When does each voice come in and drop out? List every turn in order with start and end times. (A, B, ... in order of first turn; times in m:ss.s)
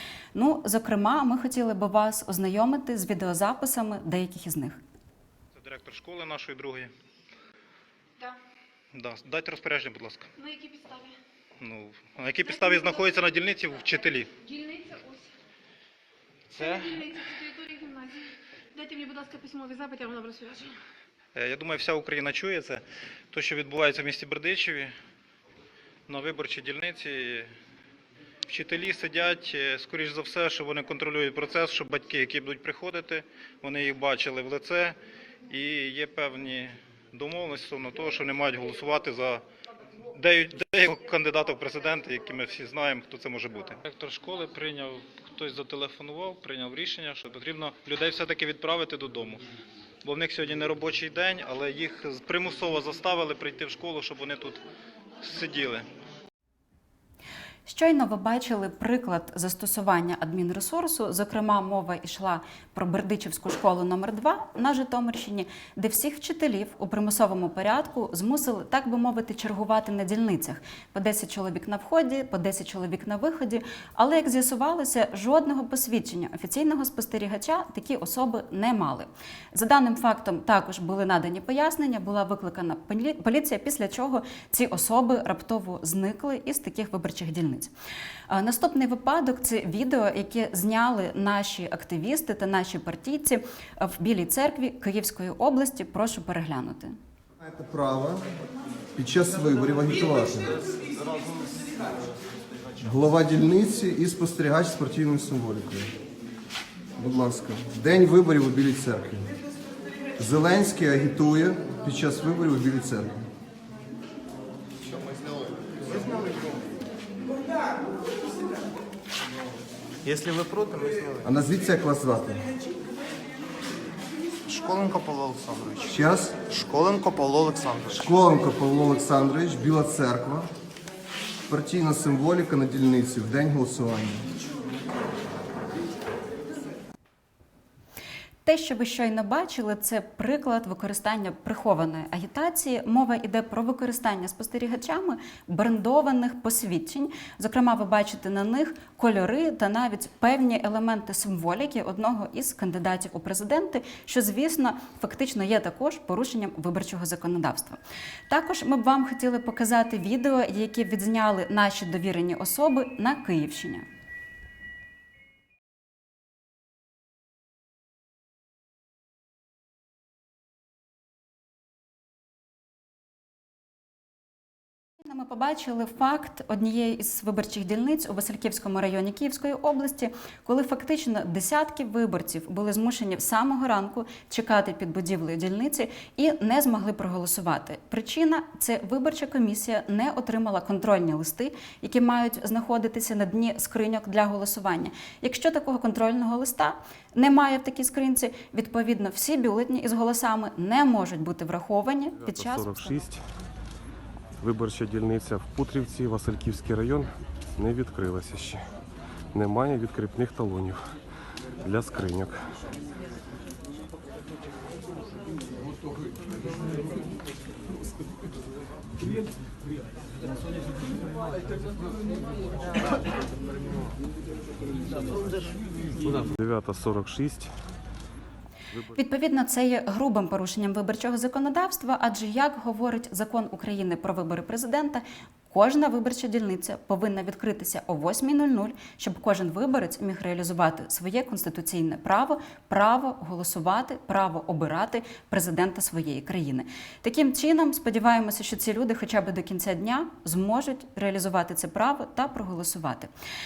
0:00.3-0:04.8 A
0:05.6-0:06.9 B
0:08.9-0:10.3 B
0:10.4-0:11.1 C
0:11.6-0:14.4 B
0:14.4-0:15.2 C
0:16.5-0:17.2 B
0:16.6-0:20.7 C
0:21.3-0:24.9 B
0:26.1-0:27.5 B
0:28.5-0:35.0 B
0:35.5-0:39.4 B
0:40.1-0:49.4 B
0:50.0-0:54.6 B
0:55.2-0:55.8 B
0:57.6-1:27.7 A
1:28.3-1:37.0 A
1:37.4-1:38.2 D
1:39.0-1:40.6 D
1:42.8-1:45.9 D
1:47.0-1:49.3 D
1:50.2-1:53.2 D
1:55.9-1:56.5 E
2:00.0-2:01.2 E
2:01.2-2:02.5 D
2:04.5-2:05.9 E
2:05.9-2:06.4 D
2:06.5-2:07.9 E
2:08.0-2:10.5 D
2:11.5-2:14.3 D
2:18.4-2:43.8 A
2:55.0-3:23.0 A
3:22.2-3:23.2 F
3:24.4-3:28.6 F
3:29.3-3:30.8 F
3:31.6-3:32.6 F
3:46.0-3:47.5 F
3:48.8-4:13.1 A